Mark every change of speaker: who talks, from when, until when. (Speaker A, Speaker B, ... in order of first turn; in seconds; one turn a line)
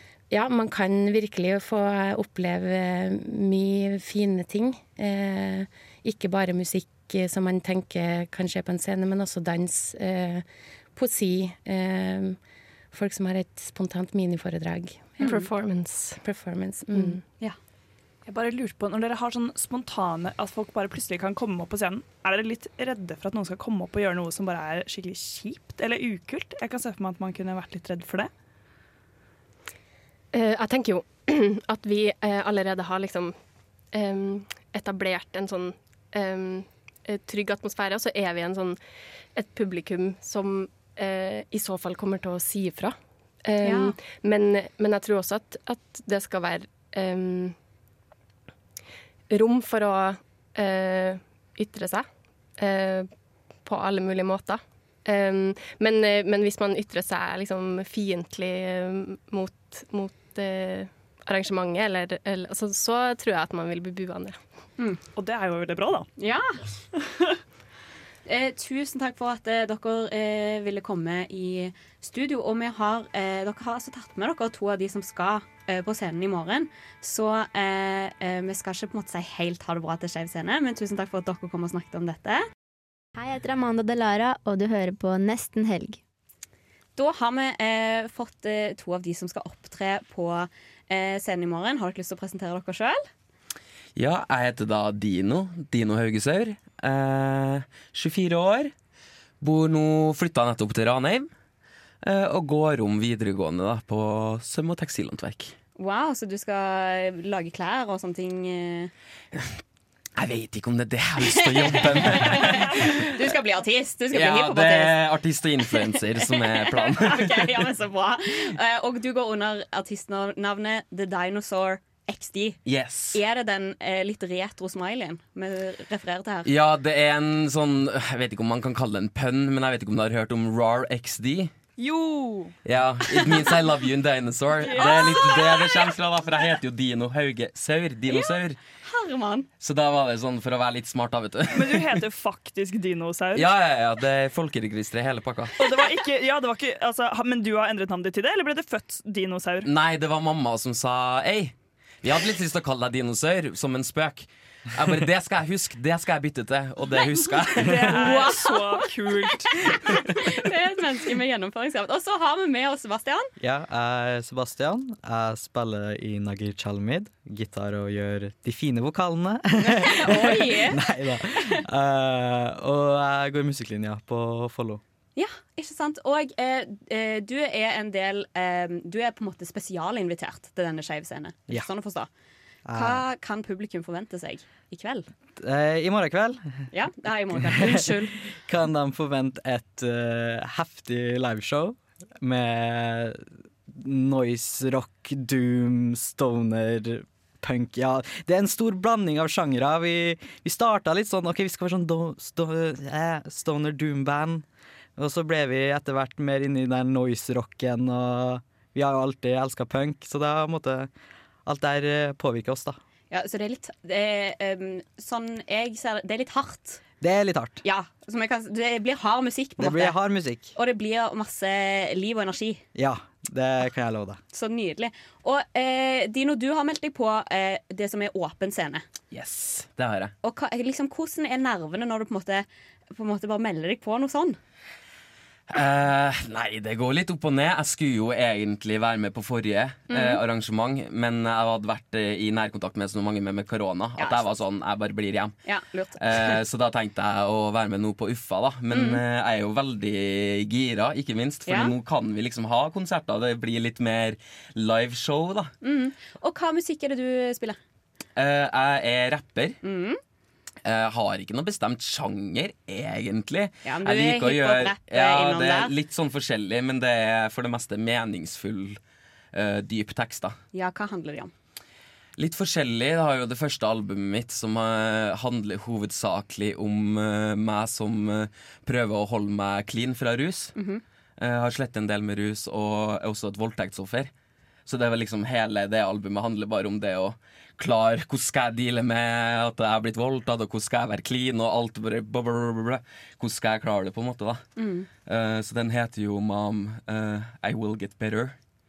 Speaker A: 0.3-12.4
Speaker A: 12.9-15.3
Speaker B: 15.2-15.5
Speaker C: 15.2-16.2
Speaker A: 16.2-17.2
Speaker C: 16.9-17.2
Speaker D: 18.2-28.3
Speaker C: 30.3-33.4
Speaker C: 33.9-38.8
Speaker C: 39.4-47.6
Speaker B: 43.6-43.9
Speaker C: 49.3-52.1
Speaker C: 52.6-53.1
Speaker C: 53.6-64.4
Speaker D: 65.2-66.1
Speaker B: 66.2-66.6
Speaker B: 68.2-82.4
Speaker E: 83.2-86.0
Speaker B: 87.0-93.0
Speaker F: 94.0-98.7
Speaker F: 99.4-101.3
Speaker F: 102.0-105.5
Speaker B: 105.8-108.9
Speaker F: 110.2-113.0
Speaker B: 111.3-115.0
Speaker F: 114.1-117.6
Speaker B: 115.9-122.6
Speaker F: 122.7-123.2
Speaker B: 123.1-126.5
Speaker F: 126.5-131.5
Speaker D: 131.8-132.6
Speaker F: 132.6-138.6
Speaker D: 134.6-135.9
Speaker B: 138.1-139.5
Speaker F: 139.6-141.8
Speaker D: 141.5-143.5
Speaker F: 143.4-145.5
Speaker D: 145.6-149.7
Speaker F: 149.7-157.8
Speaker D: 157.6-159.6
Speaker B: 157.8-158.9
Speaker B: 159.9-163.3
Speaker G: 163.4-174.8
Speaker B: 169.6-170.8
Speaker B: 175.2-182.1
Speaker G: 182.7-183.1
Speaker B: 182.7-185.1
Speaker G: 185.4-186.4
Speaker B: 186.7-188.2
Speaker G: 187.4-204.4
Speaker G: 205.0-210.9
Speaker G: 211.4-212.8
Speaker B: 213.1-216.8
Speaker G: 217.0-217.6
Speaker B: 217.6-220.0
Speaker G: 219.6-220.5
Speaker B: 220.6-222.6
Speaker G: 222.7-224.2
Speaker B: 224.3-228.8
Speaker F: 229.1-230.1
Speaker B: 230.2-234.4
Speaker F: 235.5-245.3
Speaker B: 239.9-240.2
Speaker B: 244.0-244.3
Speaker B: 245.4-246.4
Speaker F: 246.0-255.5
Speaker B: 248.7-249.0
Speaker B: 251.4-251.7
Speaker B: 255.6-257.6
Speaker F: 258.1-259.6
Speaker B: 259.6-260.0
Speaker F: 260.6-268.8
Speaker B: 263.6-265.7
Speaker F: 269.3-270.4
Speaker B: 270.5-271.3
Speaker F: 272.2-280.5
Speaker B: 280.6-280.8
Speaker F: 281.2-284.1
Speaker F: 284.6-294.4
Speaker B: 294.6-294.9
Speaker F: 295.1-298.4